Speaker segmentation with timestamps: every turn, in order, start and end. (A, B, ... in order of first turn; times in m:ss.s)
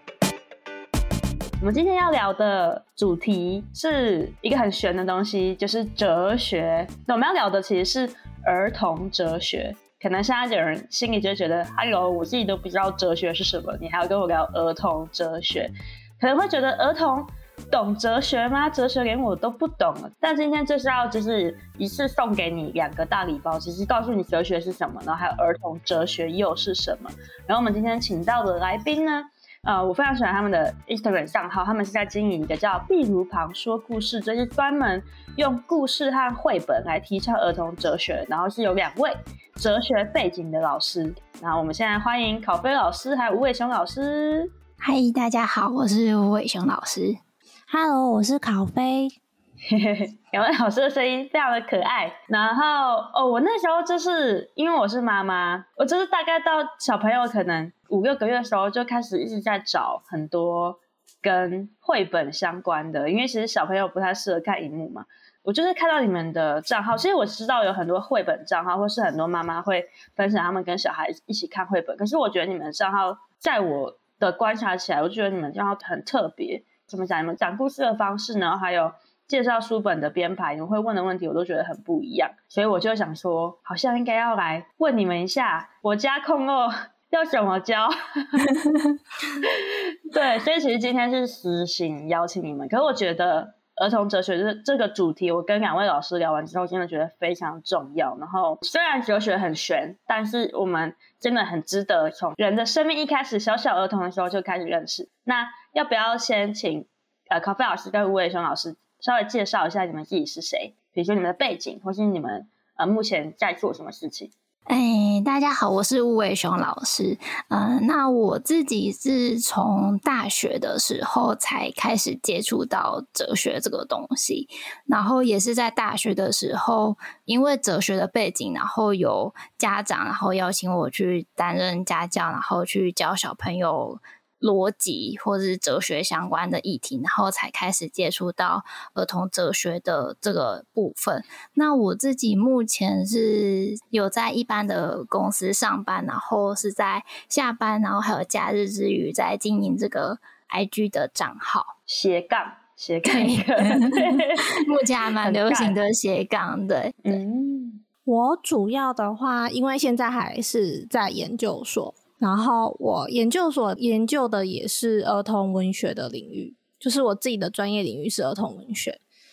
0:01.6-0:44.5 A
0:44.8-0:47.2 B
0:47.7-0:49.2 C
0:49.7-1:28.7 A
1:29.4-1:54.3 A
1:54.7-2:31.7 B
2:31.9-2:34.6 A
2:33.1-2:37.2 B
2:35.2-2:35.8 A
2:37.0-2:37.8 A
2:38.0-2:49.0 C